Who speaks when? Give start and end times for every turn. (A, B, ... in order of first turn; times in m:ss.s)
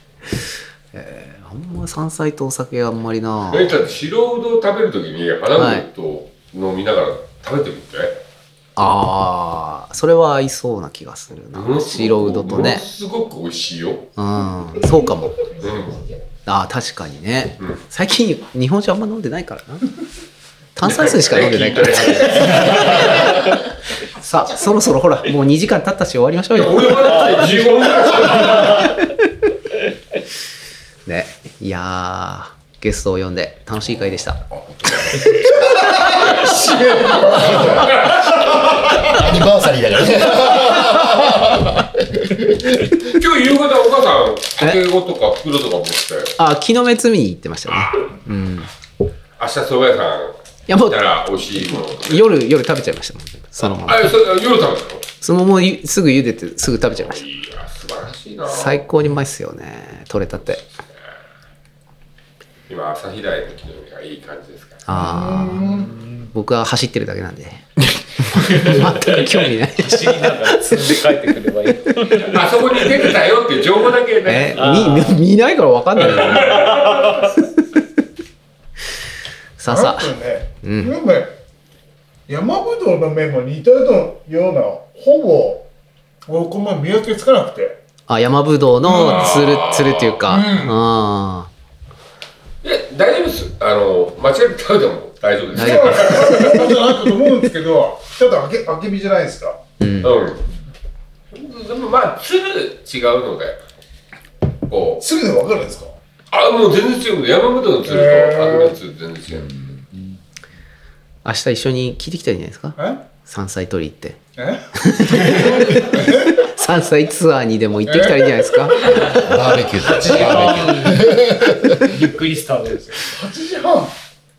0:00.9-0:03.8 A
0:03.5-0:08.2 B
0:05.5-0:05.8 A
0:08.8-0:12.8 A
0:11.5-0:14.1 B
0:14.2-0:15.4 A
0:15.6-0:16.0 B
0:16.4-0:19.9 A
0:20.8-0:23.6 A
0:20.8-0:23.6 B
0:24.2-0:27.6 A
0:26.5-0:28.9 B
0:28.3-0:28.9 C
0:28.4-0:29.1 A
0:31.0-0:36.5 A
0:35.7-0:38.0 D
0:36.8-0:38.0 E
0:37.5-0:38.4 B
0:38.8-0:43.0 E
0:43.0-0:46.4 B
0:46.4-0:48.7 A
0:47.7-0:48.1 B
0:49.4-0:52.3 B
0:50.7-0:54.1 A
0:53.6-0:55.1 B
0:55.2-0:57.2 A
0:57.0-0:58.8 B
0:58.4-1:00.6 A
1:02.7-1:04.9 B
1:04.9-1:05.6 A
1:04.9-1:05.9 D
1:05.6-1:06.3 C
1:06.3-1:11.0 A
1:08.6-1:13.1 C
1:12.2-1:15.0 B
1:14.2-1:16.8 A
1:14.5-1:15.2 C
1:16.1-1:17.2 B
1:16.3-1:17.3 C
1:19.6-1:20.9 A
1:19.7-1:21.3 D
1:22.3-1:25.7 D
1:26.3-1:27.8 D
1:28.1-1:31.5 A
1:28.8-1:30.6 B
1:28.9-1:29.2 D
1:30.4-1:30.7 D
1:32.6-1:36.7 B
1:35.5-1:39.6 D
1:35.5-1:36.8 A
1:39.8-1:40.1 A
1:40.0-1:40.4 B
1:41.3-1:43.6 B
1:44.7-1:45.0 B
1:45.0-1:45.9 D
1:46.3-1:49.5 B
1:47.9-1:48.8 D
1:51.2-1:54.2 A
1:52.8-1:53.0 D
1:54.4-1:56.5 D
1:54.8-1:59.2 A
1:57.8-1:59.0 D
1:58.8-2:02.0 E
1:59.8-2:01.3 C
2:01.8-2:03.1 C
2:03.1-2:03.9 D